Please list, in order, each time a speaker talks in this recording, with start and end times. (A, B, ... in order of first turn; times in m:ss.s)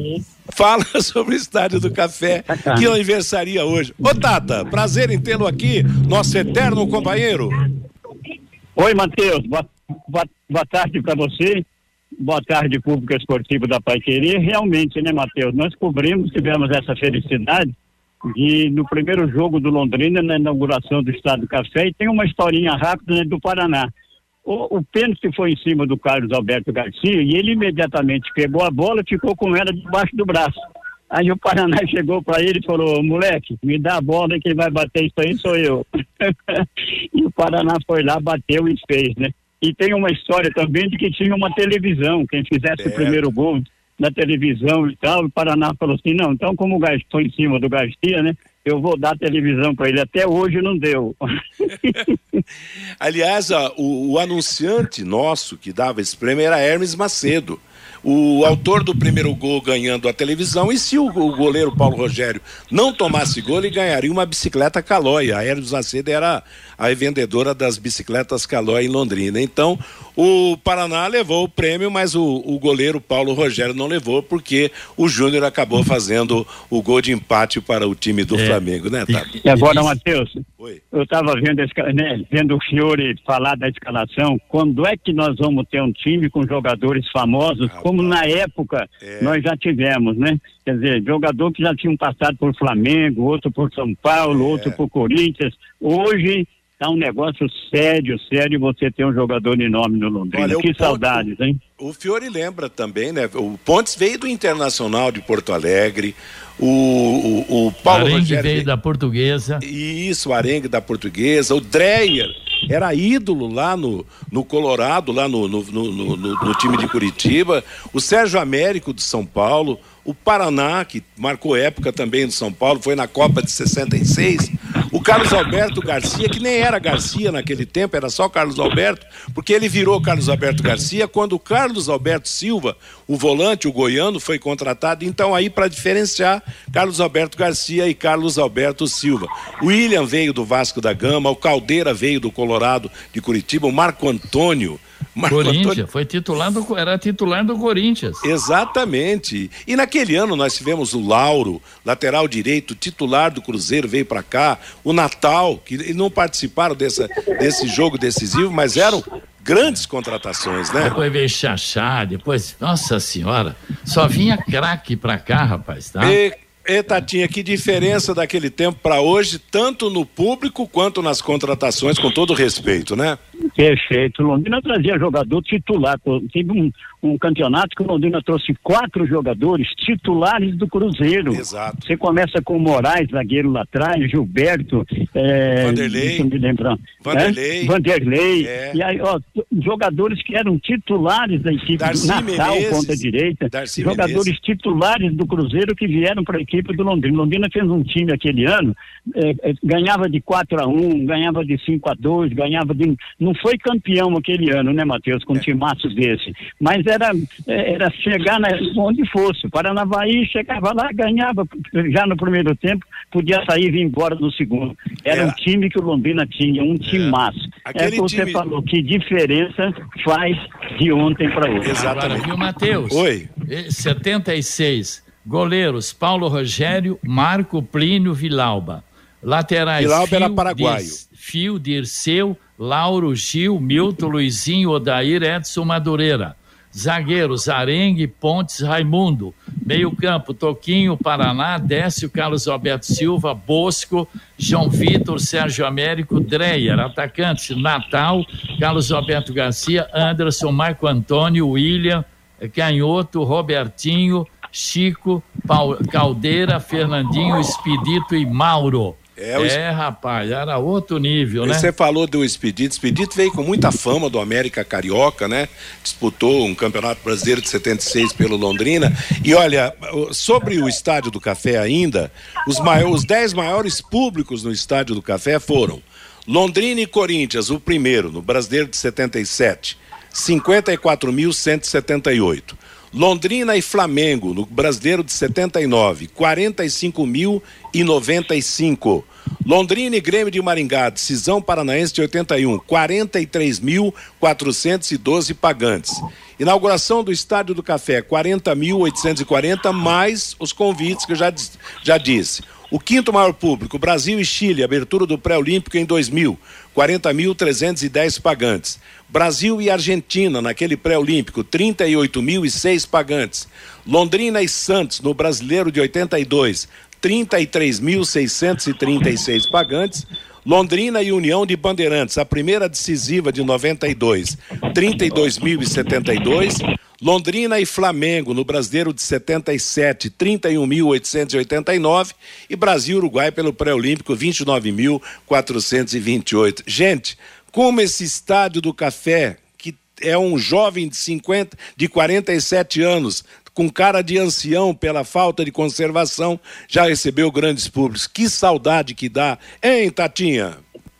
0:00.5-0:07.6 A
0:02.5-0:02.9 B
0:08.8-0:11.6 B
0:12.2-0:17.7 B
0:18.2-0:23.9 B
0:24.5-0:30.5 B
0:31.1-0:36.6 B
0:37.1-0:52.4 B
0:42.8-0:43.2 A
0:53.0-1:19.3 A
1:18.3-1:19.9 C
1:19.4-1:20.4 B
1:20.9-1:41.6 B
1:27.6-1:28.2 A
1:29.0-1:29.4 A
1:34.2-1:34.8 A
1:40.3-1:41.3 A
1:41.8-1:48.7 A
1:47.9-1:49.6 C
1:49.6-2:25.8 A
2:25.3-2:28.2 C
2:28.2-2:41.0 A
2:40.8-2:46.2 C
2:46.0-2:53.2 A
2:53.6-3:41.7 B
3:01.3-3:01.8 A
3:05.6-3:06.3 A
3:07.0-3:07.7 A
3:08.4-3:08.8 A
3:11.8-3:14.3 A
3:35.1-3:35.4 A
3:36.8-3:38.4 A
3:41.6-3:42.3 A
3:41.8-4:21.7 C
3:42.8-3:43.3 A
3:49.8-3:51.0 A
4:19.2-4:19.6 A
4:21.4-5:50.6 A